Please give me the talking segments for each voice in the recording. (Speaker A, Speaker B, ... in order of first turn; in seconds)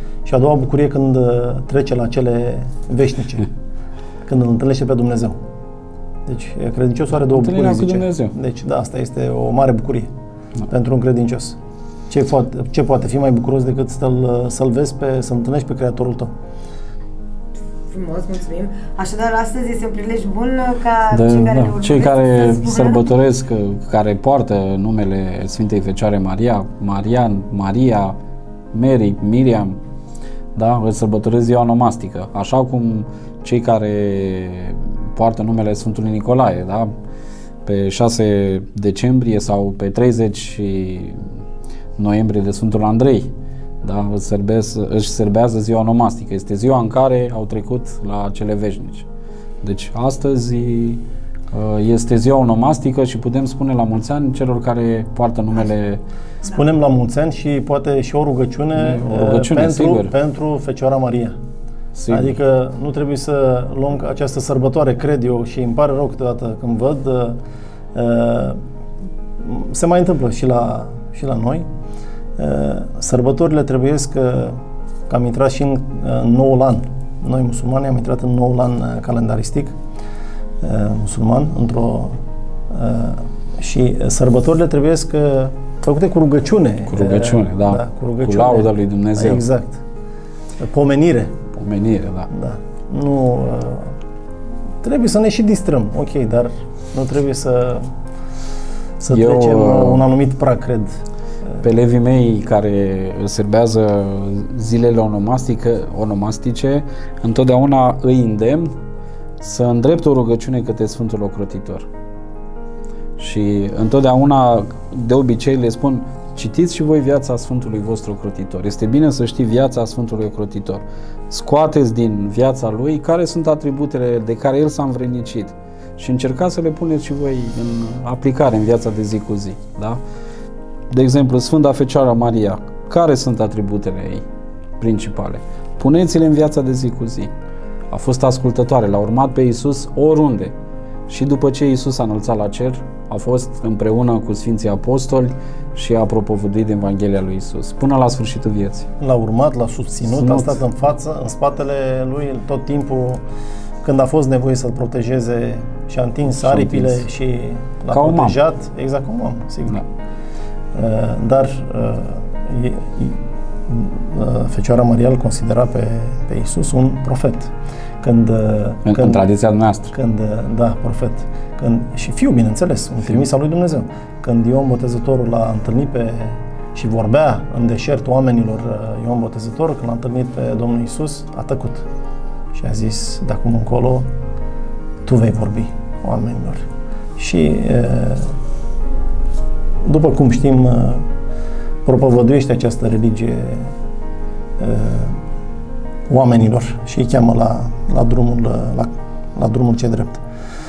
Speaker A: 0.2-3.5, 4.2-5.4, 6.3-10.1, 10.7-11.6, 12.1-16.3, 56.4-61.4, 62.1-67.4, 67.9-68.6, 69.4-71.7, 72.4-79.8, 80.6-89.8, 90.6-91.3, 92.3-94.0, 94.8-97.9, 99.0-101.0, 149.0-153.2, 153.8-159.8, 160.7-169.2, 169.9-181.9, 182.5-184.1, 185.0-186.7, 187.2-188.3, 189.8-191.1, 191.8-193.7, 194.6-195.2, 196.1-200.2
Speaker B: 7.3-8.3, 21.1-28.2, 28.7-29.8, 30.6-36.9, 37.6-41.2, 42.0-49.1, 49.6-56.0, 58.8-60.1, 62.0-62.4, 86.9-89.4, 91.6-92.3, 99.1-100.0, 101.6-108.8, 109.4-111.9, 113.2-130.0, 130.9-134.2, 134.8-137.3, 137.9-140.5, 141.1-148.9, 150.1-150.6, 156.3-157.0, 157.9-158.4, 168.9-169.9
Speaker C: 17.9-23.0